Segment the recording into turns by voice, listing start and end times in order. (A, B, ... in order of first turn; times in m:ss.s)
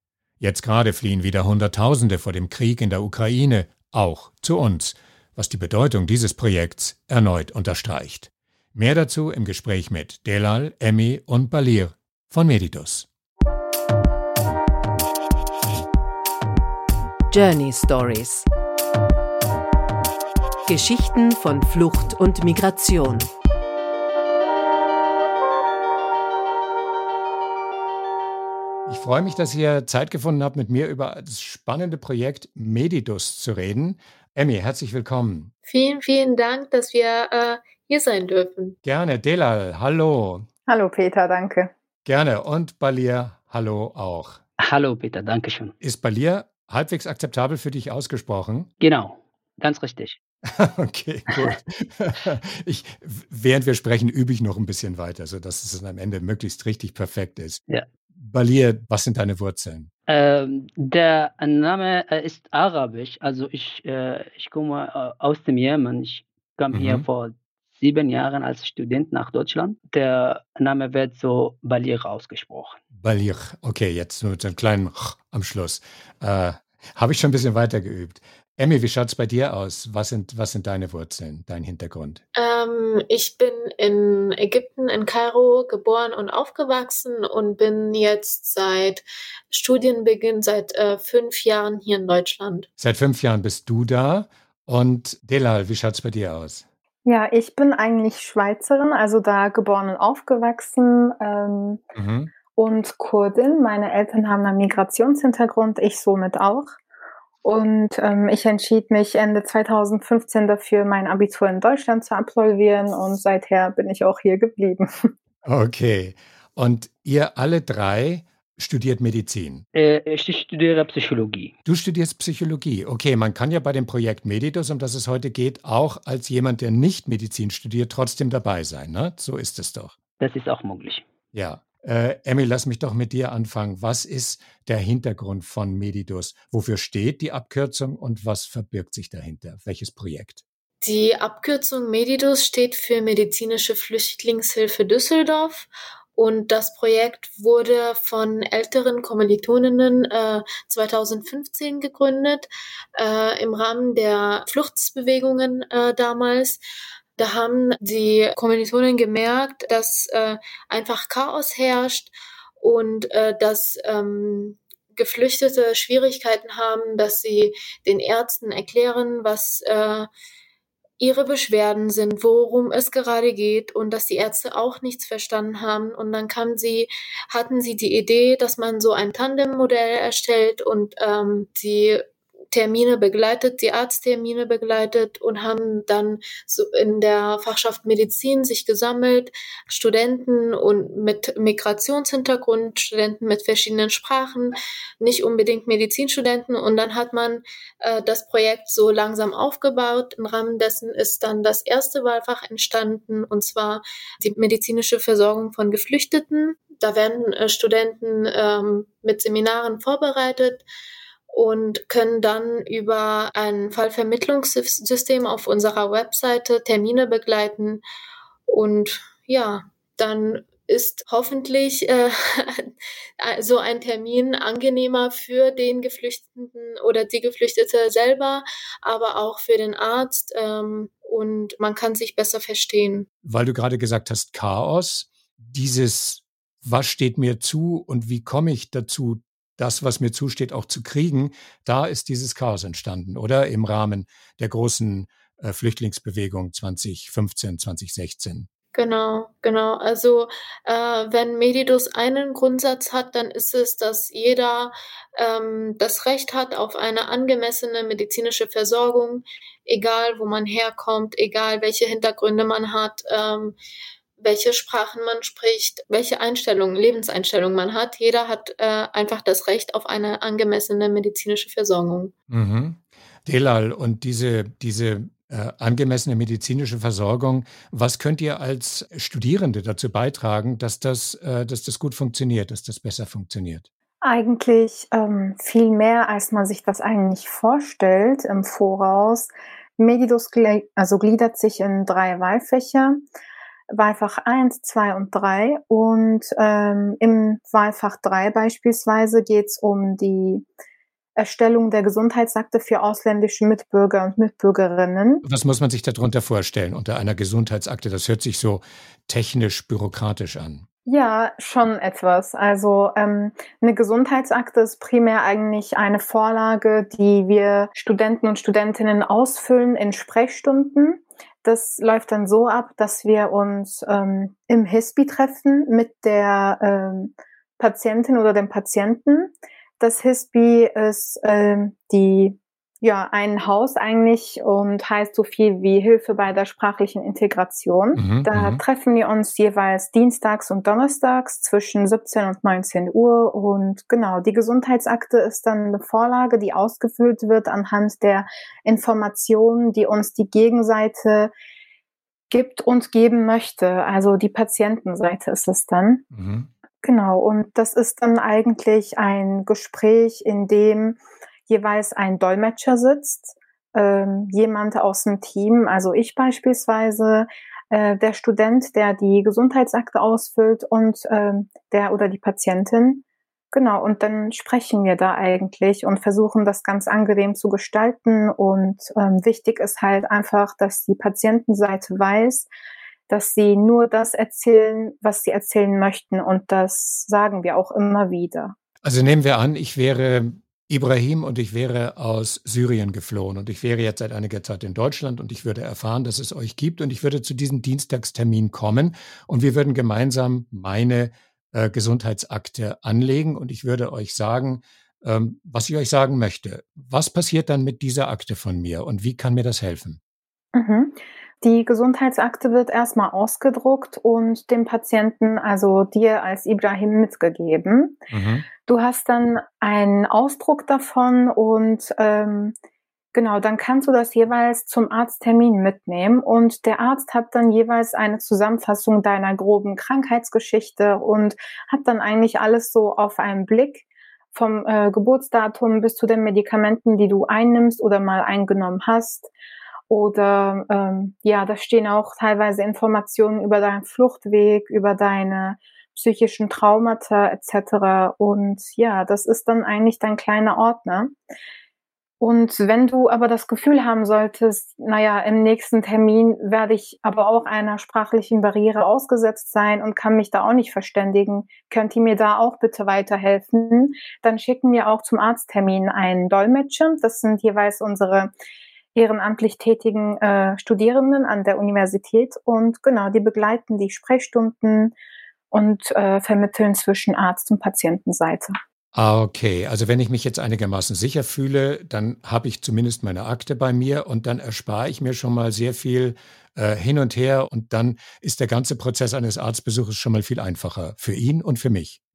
0:00.4-0:13.1 A
0:17.3-0:18.5 B
0:20.7-0:23.3 B
0:28.9-0:35.5 A
0:35.7-0:38.8 C
0:38.8-0:40.5 A
0:40.7-0:41.7 D
0:42.0-0:44.4 A
0:44.6-0:45.8 E
0:45.8-0:48.7 A
0:48.8-0:50.2 E
0:50.5-0:57.6 A
0:58.2-0:59.9 A
1:00.1-1:12.8 E
1:06.7-1:07.0 A
1:13.0-1:22.2 A
1:22.4-1:32.7 C
1:32.8-1:36.7 A
1:37.0-1:41.8 D
1:42.0-1:42.3 A
1:42.6-1:46.7 D
1:47.4-1:54.9 D
1:55.4-1:59.7 A
1:59.7-2:01.6 E
2:01.6-2:10.0 A
2:10.2-2:11.0 E
2:11.3-2:20.4 A
2:20.8-2:36.6 C
2:37.2-2:50.1 C
2:51.0-3:30.6 C
3:31.3-3:37.8 C
3:38.5-3:53.1 C
3:53.2-4:08.5 A
4:08.7-4:23.6 C
4:24.2-4:32.1 C
4:32.3-4:43.7 A
4:44.0-4:53.0 D
4:53.7-5:00.4 D
5:01.2-5:05.2 D
5:05.2-5:10.7 A
5:10.9-5:51.3 D
5:38.0-5:38.6 A
5:52.3-5:56.0 D
5:56.1-5:56.5 A
5:56.8-6:22.5 D
6:23.1-6:28.6 D
6:28.8-6:50.0 A
6:50.5-6:58.0 D
6:58.1-6:58.5 A
6:58.6-7:02.6 D
7:03.1-7:19.3 D
7:19.9-7:31.1 D
7:32.2-7:48.3 D
7:48.9-7:54.9 D
7:55.5-7:58.6 D
7:58.9-8:12.0 A